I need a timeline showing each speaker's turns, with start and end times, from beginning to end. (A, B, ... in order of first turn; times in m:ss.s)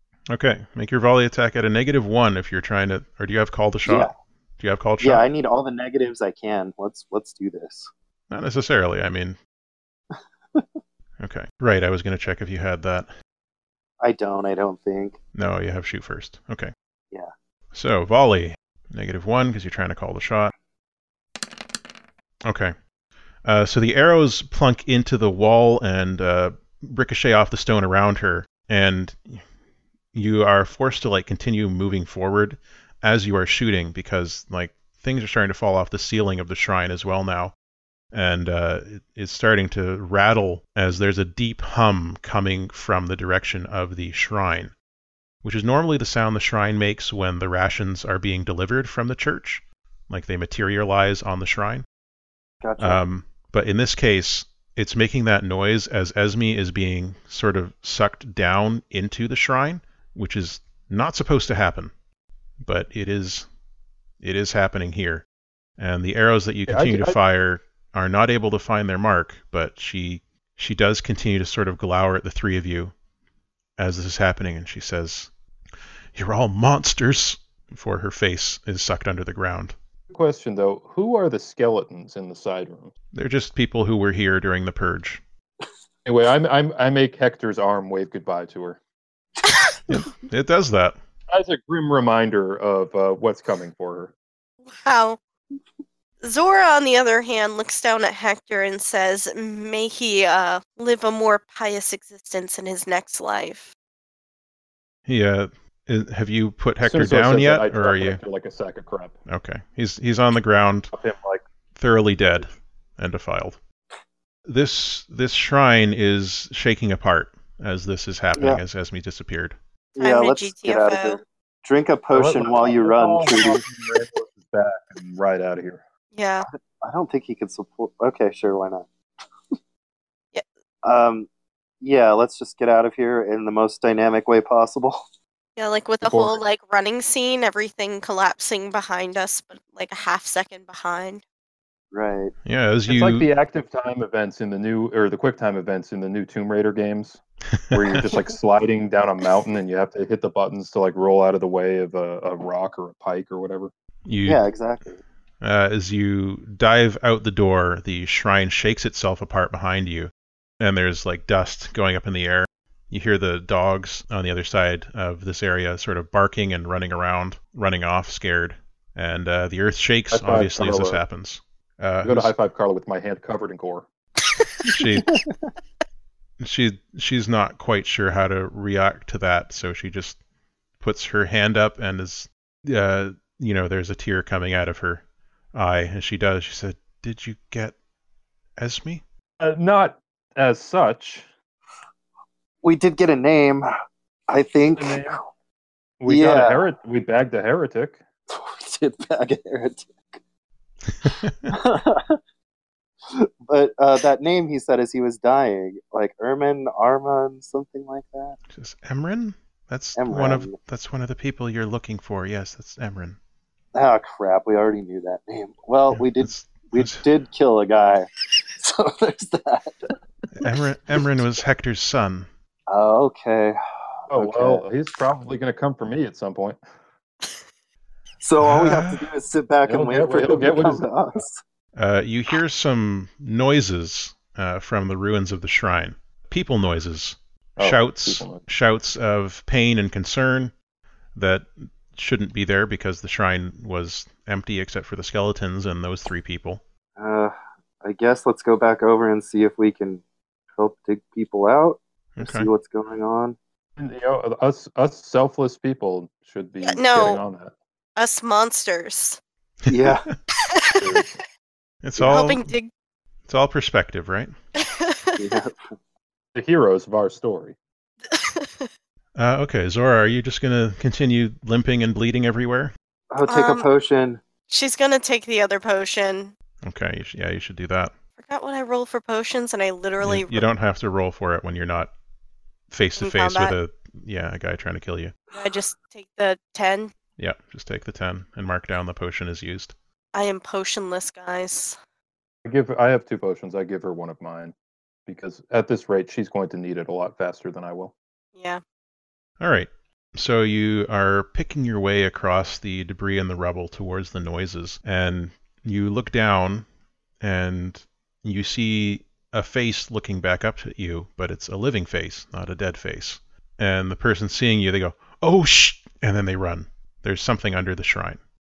0:00.3-0:05.3 A
0:03.9-0:04.1 B
0:05.0-0:07.9 B
0:08.3-0:09.4 A
0:11.2-0:13.1 A
0:14.0-0:15.2 B
0:15.4-0:16.7 A
0:17.7-0:20.5 A
0:22.4-0:22.8 A
0:23.4-0:29.4 A
0:30.1-0:37.5 A
0:38.1-0:44.7 A
0:45.4-0:51.8 A
0:52.6-0:53.0 B
0:52.8-1:01.9 A
1:02.6-1:03.5 A
1:04.2-1:05.2 A
1:05.8-1:12.9 A
1:06.7-1:07.2 C
1:13.8-1:15.3 A
1:16.2-1:19.7 A
1:20.1-1:22.9 C
1:23.1-1:25.2 A
1:26.0-1:28.8 C
1:29.9-1:31.0 A
1:31.3-1:34.1 C
1:34.8-1:35.2 D
1:36.2-1:43.7 D
1:45.1-1:48.2 A
1:46.8-1:49.2 C
1:49.3-1:50.9 A
1:50.9-1:51.4 C
1:51.8-1:53.6 A
1:54.4-1:59.6 A
1:58.4-1:58.6 B
2:00.0-2:03.6 B
2:00.0-2:01.2 D
2:02.1-2:05.8 C
2:06.1-2:06.5 D
2:06.8-2:08.9 B
2:10.8-2:11.3 B
2:11.8-2:15.0 B
2:15.6-2:21.2 D
2:16.0-2:16.4 C
2:21.9-2:22.3 B
2:22.5-2:23.3 A
2:22.9-2:33.7 C
2:27.5-2:28.0 A
2:34.1-2:34.4 A
2:34.3-2:35.0 B
2:35.4-2:52.3 A
2:50.1-2:51.0 C
2:52.0-2:53.9 C
2:54.7-2:55.2 A
2:55.1-2:55.5 B
2:56.4-3:00.2 A
3:00.8-3:05.0 A
3:05.5-3:07.8 A
3:08.6-3:09.0 A
3:09.4-3:11.3 C
3:12.6-3:13.7 B
3:14.3-3:15.2 B
3:14.8-3:15.2 C
3:16.0-3:18.0 C
3:16.1-3:16.6 B
3:18.3-3:20.0 B
3:21.0-3:21.5 A
3:21.5-3:22.2 B
3:23.1-3:28.4 B
3:28.5-3:33.2 A
3:30.0-3:30.6 B
3:33.8-3:40.0 B
3:35.9-3:37.0 A
3:40.4-3:42.3 A
3:42.7-3:44.6 B
3:44.1-3:46.6 C
3:48.2-3:51.4 B
3:48.4-3:49.1 A
3:49.7-3:51.2 C
3:51.8-4:00.5 A
3:57.6-3:58.4 C
4:01.2-4:06.6 A
4:07.0-4:10.0 B
4:10.6-4:13.4 B
4:12.2-4:12.5 A
4:13.8-4:17.5 C
4:16.6-4:17.2 D
4:18.0-4:19.2 D
4:19.7-4:20.1 B
4:19.7-4:20.1 A
4:20.4-4:21.0 D
4:20.8-4:21.2 C
4:21.8-4:22.5 A
4:22.0-4:22.7 D
4:23.3-4:24.3 A
4:24.6-4:25.2 D
4:25.2-4:25.7 B
4:26.4-4:27.6 C
4:28.1-4:28.7 D
4:29.2-4:32.7 A
4:33.1-4:34.2 B
4:33.3-4:33.7 D
4:34.5-4:36.3 D
4:36.6-4:37.9 A
4:38.2-4:40.5 D
4:40.0-4:41.9 A
4:42.7-4:45.1 A
4:43.0-4:43.6 D
4:45.3-4:46.9 D
4:47.2-4:49.7 A
4:50.1-4:51.8 D
4:52.4-4:54.5 C
4:55.1-4:57.9 C
4:58.4-4:58.6 D
4:59.4-5:06.6 A
5:07.2-5:18.2 A